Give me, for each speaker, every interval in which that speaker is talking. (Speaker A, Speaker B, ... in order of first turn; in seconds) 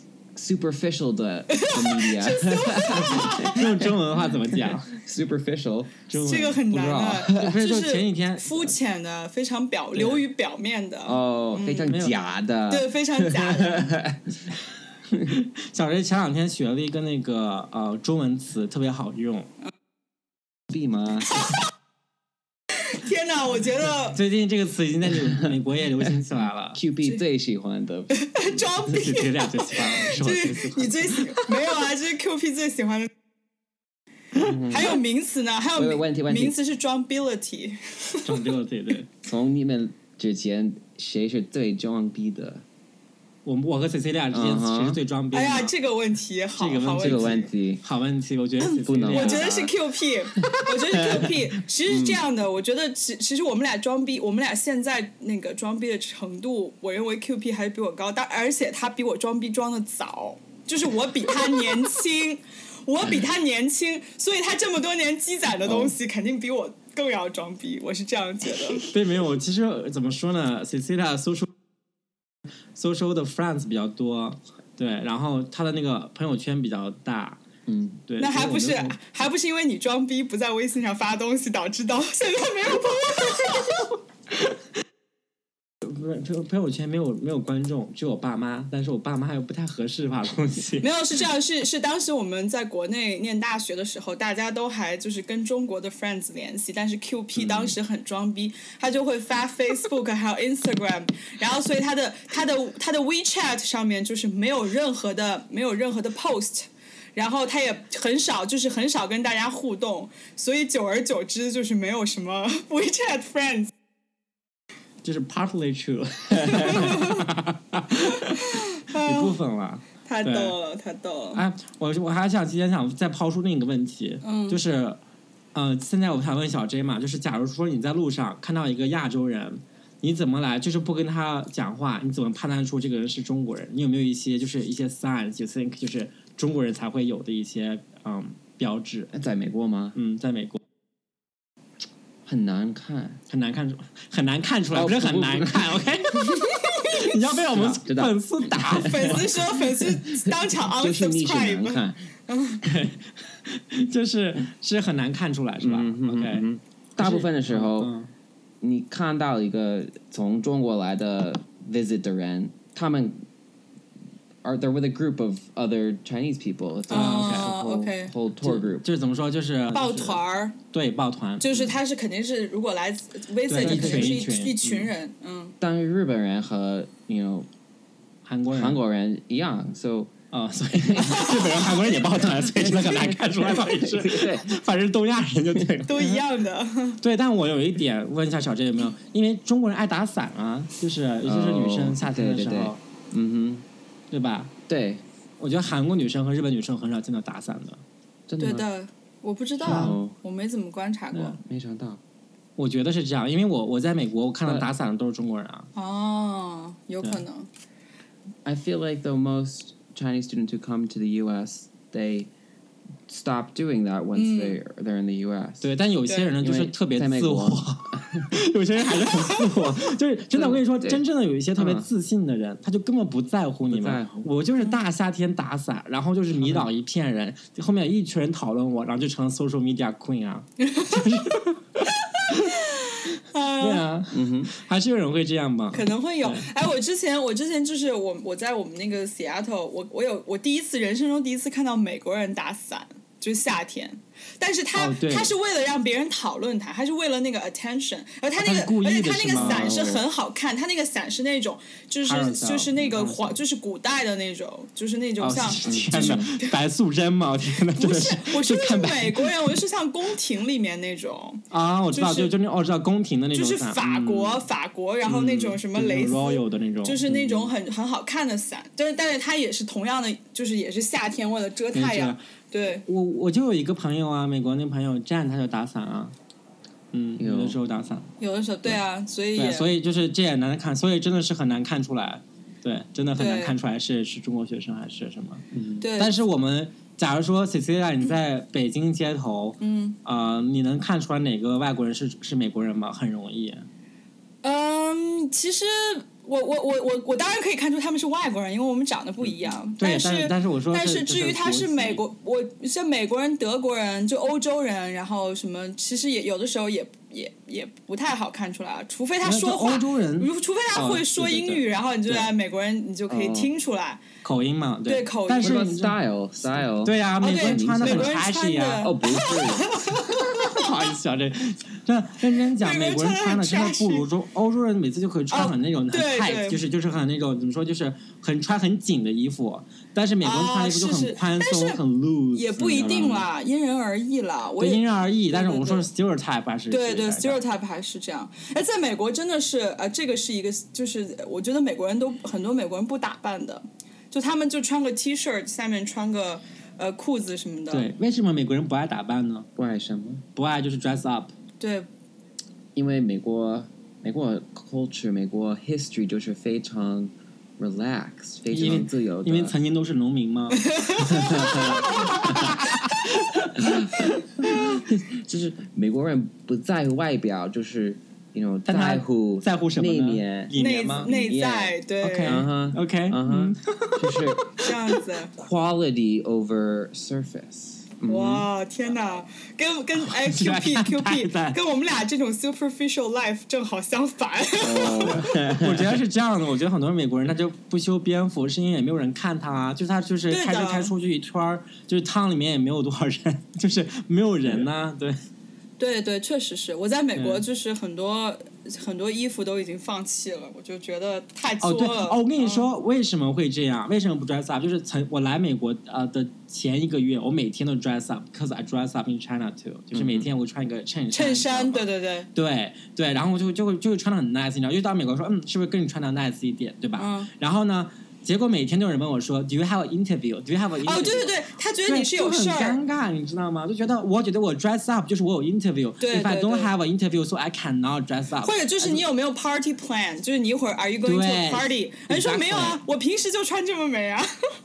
Speaker A: 0.3-6.0, 6.7-7.6, 11.0-14.4, 20.7-21.5, 26.7-28.4, 34.3-35.0, 35.7-36.6, 39.2-42.6, 44.3-45.0, 47.0-47.8, 48.8-49.7, 50.4-52.2, 65.7-65.9, 77.7-78.0, 139.1-140.0, 142.2-143.2, 144.7-146.4, 147.4-152.1, 155.6-157.9, 158.6-163.2, 164.4-168.8, 173.6-174.2, 175.6-177.5, 178.5-180.1, 180.8-184.6, 191.2-193.7, 194.7-195.0, 198.3-198.7, 199.6-200.1, 201.4-202.0, 208.4-212.3, 213.1-215.7, 216.4-218.3, 220.3-221.0, 221.6-221.9, 223.7-224.3, 226.4-226.7, 234.1-234.5, 249.3-250.0, 255.6-256.3, 277.2-277.6, 285.5-285.9, 313.1-313.5, 315.4-318.2, 318.8-319.7, 349.6-350.2, 352.7-359.5, 361.0-362.4, 363.5-374.5, 375.3-378.5, 384.6-386.0, 409.9-410.3
Speaker B: 1.5-3.6, 6.1-11.9, 12.7-13.9, 22.7-24.2, 28.1-33.1, 34.7-38.5, 45.3-47.5, 49.1-68.9, 78.2-83.8, 90.8-113.7, 116.5-117.3, 118.0-119.4, 120.0-121.4, 124.2-124.6, 146.5-147.1, 148.7-152.6, 166.9-168.1, 169.7-170.6, 171.4-175.5, 185.8-187.0, 198.4-201.4, 205.7-207.5, 214.1-214.6, 230.6-231.0, 232.1-233.8, 235.7-256.6, 257.7-262.3, 263.3-272.8, 278.2-279.7, 283.1-283.5, 285.8-286.1, 289.6-290.0, 294.4-314.0, 314.9-315.7, 317.2-320.7, 322.6-324.1, 325.3-326.6, 330.2-331.8, 332.3-335.9, 336.7-347.9, 351.6-351.9, 360.5-363.0, 370.5-372.4, 374.6-375.3, 378.1-385.3, 390.3-390.9, 395.8-402.7, 411.1-412.3, 417.0-417.3, 420.8-422.8, 426.0-426.7, 428.4-434.3
Speaker C: 3.2-4.9, 6.1-6.6, 7.3-8.7, 9.9-10.2, 11.9-12.1, 15.3-19.5, 24.1-26.8, 28.9-31.6, 38.2-39.1, 43.4-45.7, 46.6-49.5, 68.8-71.5, 72.8-77.4, 78.1-79.0, 85.8-90.9, 115.0-120.5, 121.3-125.0, 125.5-139.1, 139.9-140.6, 143.3-149.4, 152.6-156.4, 157.0-158.1, 166.9-167.5, 168.4-171.5, 173.5-174.9, 178.2-178.8, 180.3-186.2, 187.0-192.8, 194.1-194.5, 195.4-197.8, 199.6-200.0, 202.6-205.7, 215.6-232.6, 233.6-236.4, 244.7-245.3, 248.4-249.9, 252.0-253.4, 255.2-259.5, 261.5-264.5, 265.0-267.5, 271.7-272.2, 272.9-276.1, 276.9-278.1, 279.3-285.4, 286.0-293.6, 299.8-302.0, 309.2-312.3, 314.2-316.0, 316.8-318.9, 320.1-333.3, 334.6-337.4, 347.7-349.5, 350.4-351.3, 358.5-363.6, 368.6-371.1, 372.0-374.9, 380.0-381.6, 385.1-395.2, 397.1-397.4, 401.6-429.0, 431.0-432.8